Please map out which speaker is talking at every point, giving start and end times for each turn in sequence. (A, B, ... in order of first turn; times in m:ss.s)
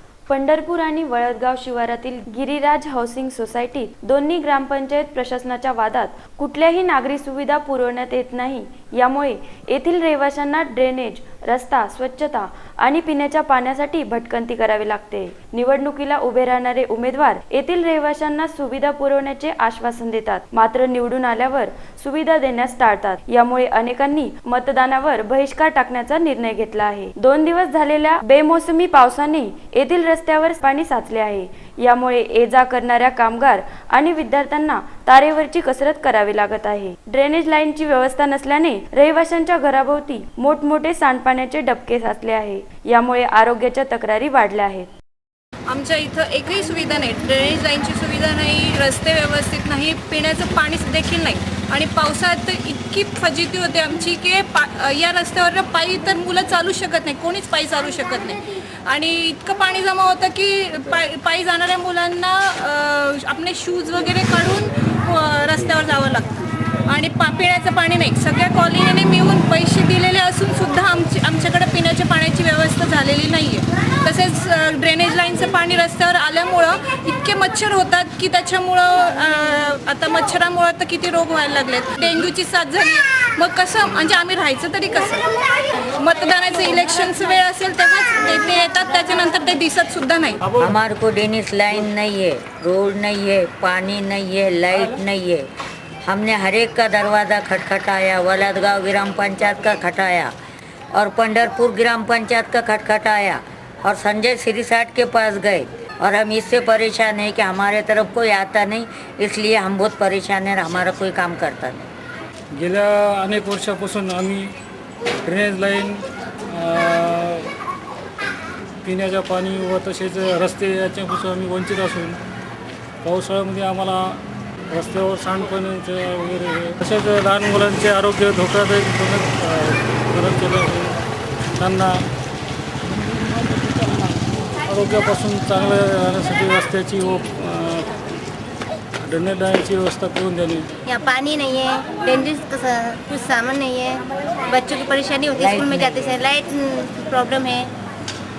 0:00.3-0:44.9 A
0:45.7-1:06.4 B
1:06.9-1:25.2 B
1:25.9-1:30.4 B
1:30.6-1:35.5 C
1:36.1-1:40.3 C
1:41.0-1:51.9 C
1:52.6-1:54.5 D
1:55.3-1:56.0 D
1:56.5-1:57.5 D
1:58.8-2:02.2 D
2:03.0-2:04.2 D
2:04.7-2:11.0 D
2:11.6-2:11.9 D
2:13.4-2:17.9 D
2:19.0-2:20.7 D
2:20.9-2:27.7 E
2:25.4-2:26.0 C